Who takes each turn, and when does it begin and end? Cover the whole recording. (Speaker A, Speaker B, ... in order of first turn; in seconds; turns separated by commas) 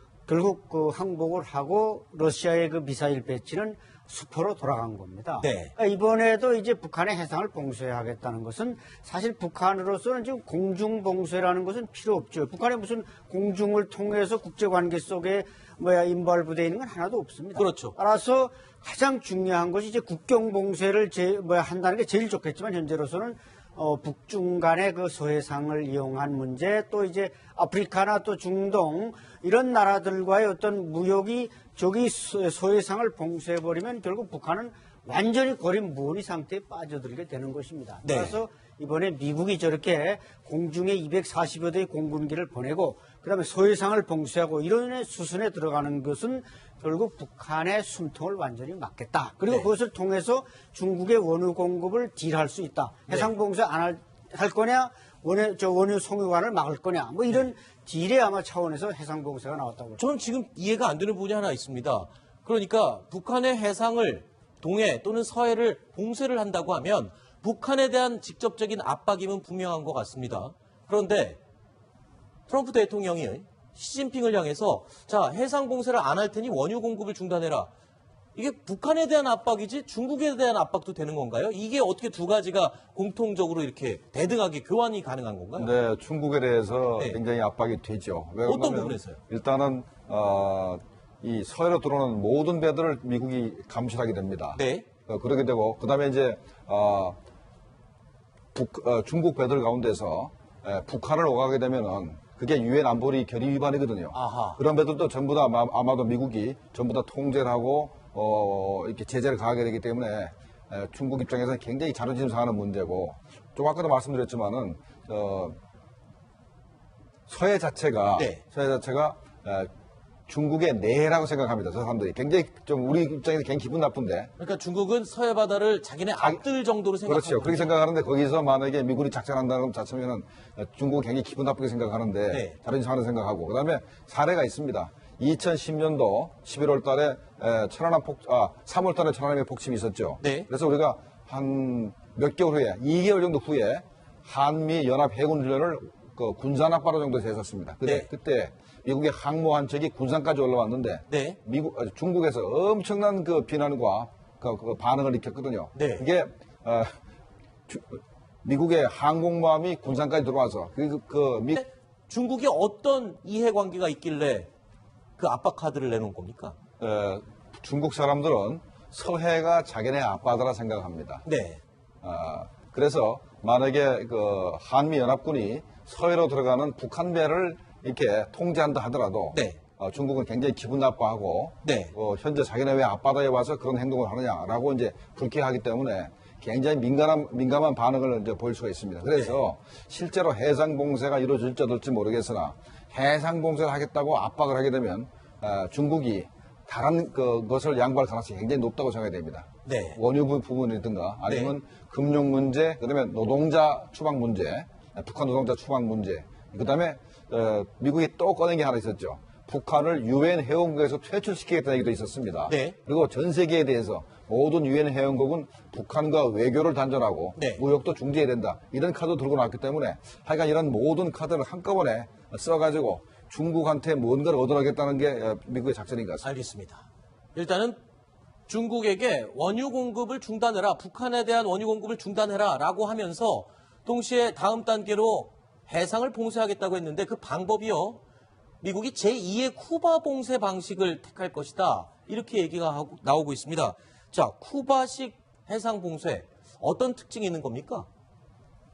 Speaker A: 0.3-60.0, Speaker B: 5.4-5.7, Speaker B: 17.6-18.0, Speaker B: 38.0-38.4, Speaker B: 60.0-71.4, Speaker B: 72.5-77.7, Speaker B: 78.3-85.7, Speaker C: 85.6-97.2, Speaker B: 88.5-89.2, Speaker B: 94.5-94.9, Speaker C: 98.5-115.6, Speaker B: 104.1-104.6, Speaker C: 117.3-119.7, Speaker B: 118.2-118.4, Speaker C: 120.3-124.3, Speaker B: 124.4-127.7, Speaker C: 126.2-126.4, Speaker C: 127.0-157.0, Speaker B: 132.3-132.6, Speaker B: 140.2-140.5, Speaker B: 151.1-151.4, Speaker B: 155.8-156.1, Speaker C: 157.7-161.6, Speaker B: 161.5-164.5, Speaker B: 165.2-166.6, Speaker C: 166.8-171.2, Speaker B: 171.2-171.6, Speaker C: 172.0-226.3, Speaker B: 179.3-179.6, Speaker B: 181.6-181.9, Speaker B: 199.7-200.0, Speaker B: 201.3-201.5, Speaker B: 212.5-212.8, Speaker B: 217.4-217.6, Speaker B: 226.2-227.8, Speaker B: 228.5-238.0, Speaker B: 238.6-247.9